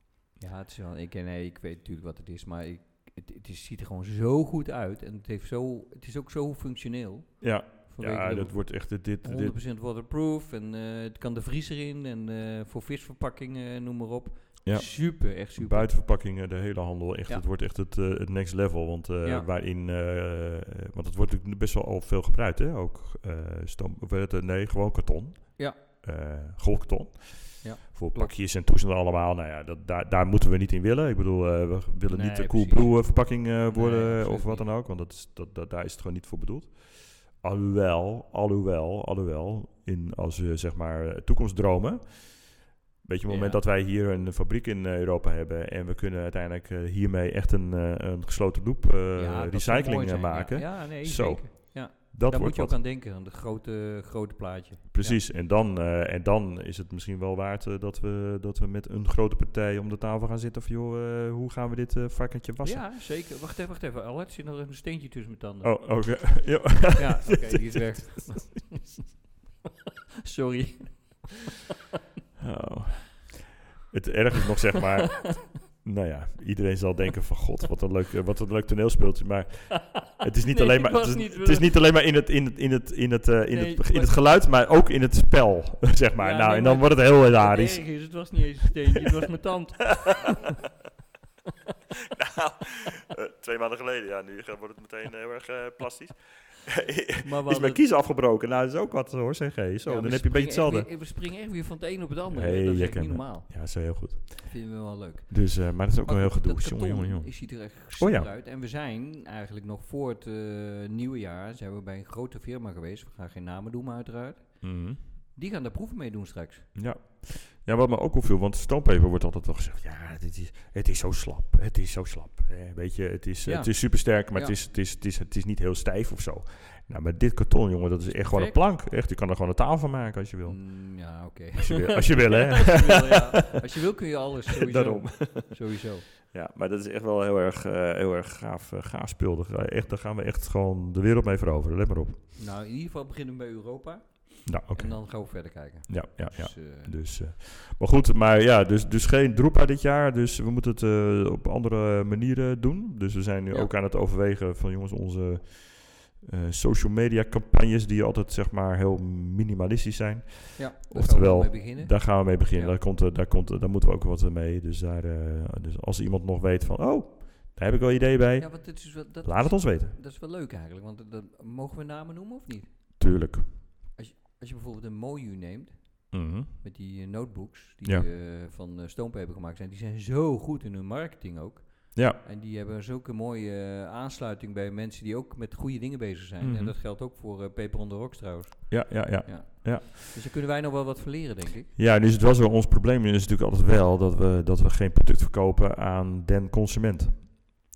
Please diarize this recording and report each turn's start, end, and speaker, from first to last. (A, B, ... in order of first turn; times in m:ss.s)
0:00.4-0:16.0 A
0:07.4-0:09.6 B
0:14.6-0:52.8 B
0:27.6-0:28.3 A
0:32.1-0:34.7 A
0:43.2-0:43.6 A
0:49.2-0:55.2 A
0:54.9-1:02.9 B
1:02.6-1:06.4 A
1:05.6-1:08.3 B
1:06.9-1:09.0 A
1:10.2-1:11.4 A
1:12.4-1:28.4 B
1:20.5-1:21.8 A
1:23.5-1:24.3 A
1:26.2-1:30.5 A
1:32.1-1:40.9 B
1:37.2-1:37.8 A
1:39.8-1:56.8 A
1:42.3-1:48.3 B
1:54.6-1:55.0 B
1:56.7-2:13.1 B
2:03.4-2:04.6 A
2:08.1-2:08.6 A
2:10.4-2:16.1 A
2:14.6-2:15.7 B
2:16.3-2:22.2 B
2:22.4-2:26.9 A
2:24.4-2:50.0 B
2:40.6-2:42.7 A
2:48.4-2:52.9 A
2:53.0-2:53.5 B
2:53.9-3:11.7 A
2:56.1-2:56.5 B
2:57.8-2:58.1 B
3:01.9-3:02.2 B
3:06.4-3:06.7 B
3:08.7-3:09.9 B
3:11.8-3:17.5 B